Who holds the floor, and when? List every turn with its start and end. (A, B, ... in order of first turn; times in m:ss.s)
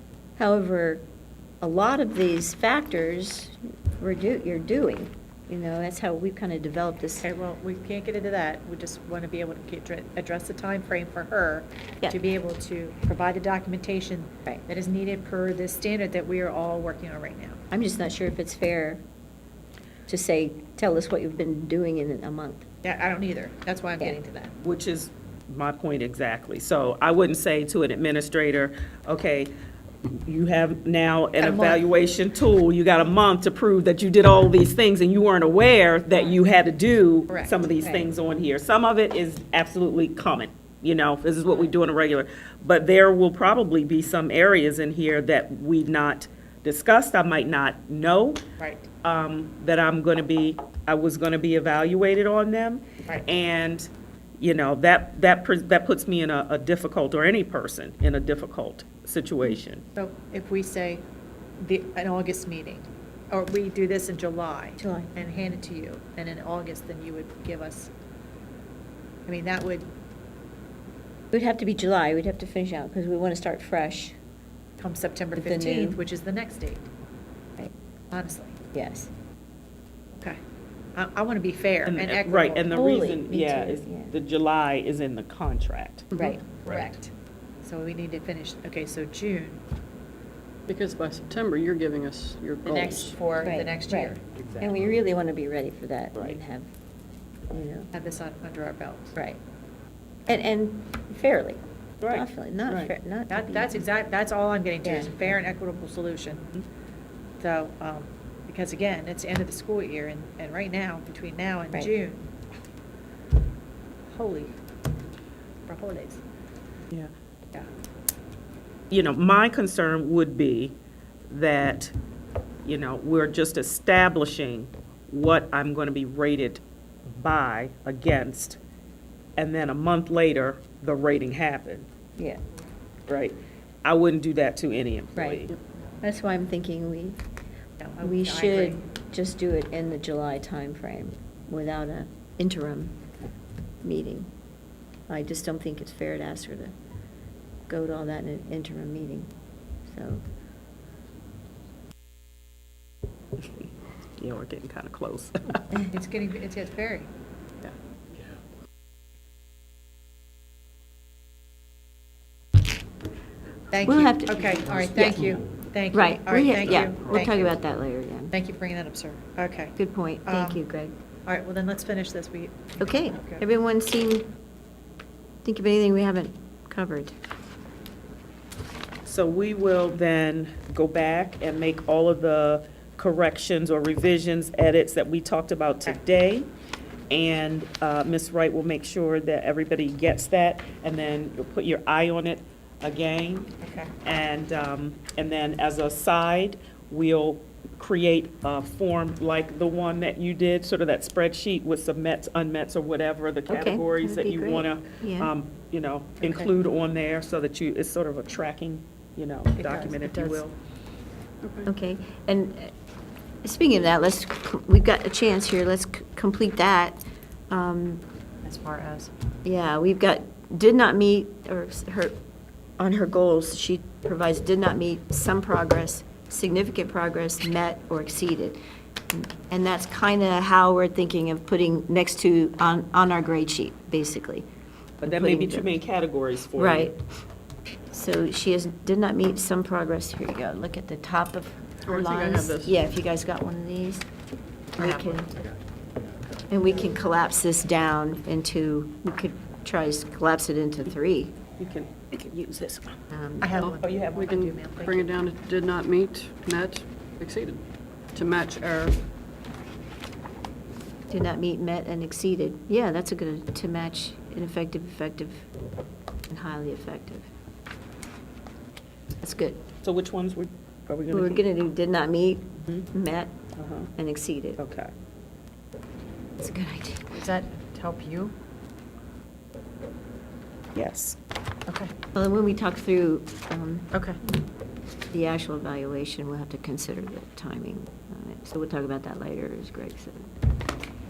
0:00.4-0:01.0 A
0:01.6-0:07.3 A
0:07.2-0:17.6 B
0:17.7-0:19.0 A
0:20.1-0:22.7 A
0:22.8-0:24.6 B
0:24.6-0:29.5 C
0:30.0-0:48.4 C
0:31.4-0:31.8 B
0:37.3-0:37.6 B
0:48.6-0:48.9 B
0:49.0-0:53.9 C
0:54.4-0:59.8 C
1:00.0-1:01.0 B
1:01.6-1:07.9 B
1:04.8-1:05.1 A
1:09.3-1:09.9 B
1:11.3-1:14.2 A
1:14.8-1:16.9 B
1:15.4-1:16.0 A
1:18.1-1:18.6 B
1:18.7-1:19.1 A
1:20.1-1:20.4 B
1:21.0-1:22.8 B
1:21.9-1:26.1 C
1:22.7-1:24.1 A
1:26.1-1:27.1 B
1:26.2-1:26.4 A
1:27.6-1:29.6 B
1:30.7-1:33.2 D
1:32.6-1:34.3 B
1:33.4-1:36.7 A
1:34.4-1:34.8 C
1:37.5-1:37.9 A
1:37.9-1:39.2 B
1:40.3-1:43.8 A
1:42.0-1:42.9 C
1:43.3-1:46.5 B
1:44.8-1:45.4 A
1:47.4-1:52.3 B
1:54.1-1:54.6 B
1:55.7-1:56.2 B
1:58.9-2:00.8 C
2:01.3-2:01.9 C
2:02.6-2:08.6 C
2:09.4-2:11.9 C
2:13.1-2:15.6 C
2:15.2-2:15.4 A
2:16.0-2:17.2 A
2:17.8-2:18.8 B
2:18.0-2:23.0 A
2:23.8-2:24.3 A
2:25.1-2:26.8 A
2:27.7-2:29.3 A
2:29.9-2:30.2 A
2:33.4-2:33.7 C
2:34.2-2:35.7 C
2:35.9-2:37.1 B
2:43.7-2:47.6 B
2:43.8-2:45.4 A
2:45.9-2:48.3 A
2:48.3-2:50.6 B
2:49.8-2:51.0 A
2:51.3-2:53.4 B
2:52.8-2:54.3 A
2:55.4-2:57.2 A
2:59.0-3:06.5 C
3:07.1-3:30.5 C
3:13.6-3:13.9 B
3:23.5-3:25.3 A
3:26.2-3:26.5 B
3:29.6-3:30.6 B
3:31.4-3:31.7 D
3:31.6-3:32.7 A
3:33.4-3:38.0 A
3:38.4-3:39.1 B
3:39.4-3:42.2 A
3:42.8-3:48.6 A
3:49.1-3:54.5 A
3:55.0-3:55.7 A
3:55.0-3:56.9 C
3:56.6-3:57.0 A
3:57.9-4:04.1 A
4:01.9-4:02.7 D
4:04.8-4:05.4 A
4:04.8-4:05.3 B
4:06.5-4:11.4 A
4:11.6-4:13.0 C
4:13.1-4:13.5 A
4:13.4-4:15.1 B
4:13.6-4:19.0 D
4:13.8-4:14.3 C
4:21.1-4:25.5 A
4:26.3-4:27.3 A
4:29.2-4:29.6 A
4:29.8-4:31.4 C
4:31.1-4:33.4 A
4:33.6-4:33.9 C
4:34.0-4:34.6 A
4:34.6-4:34.9 C
4:36.4-4:37.2 A
4:37.1-4:38.4 B
4:40.7-4:41.2 C
4:41.7-4:41.9 B
4:42.1-4:44.4 A
4:43.9-4:44.2 B
4:45.1-4:50.3 A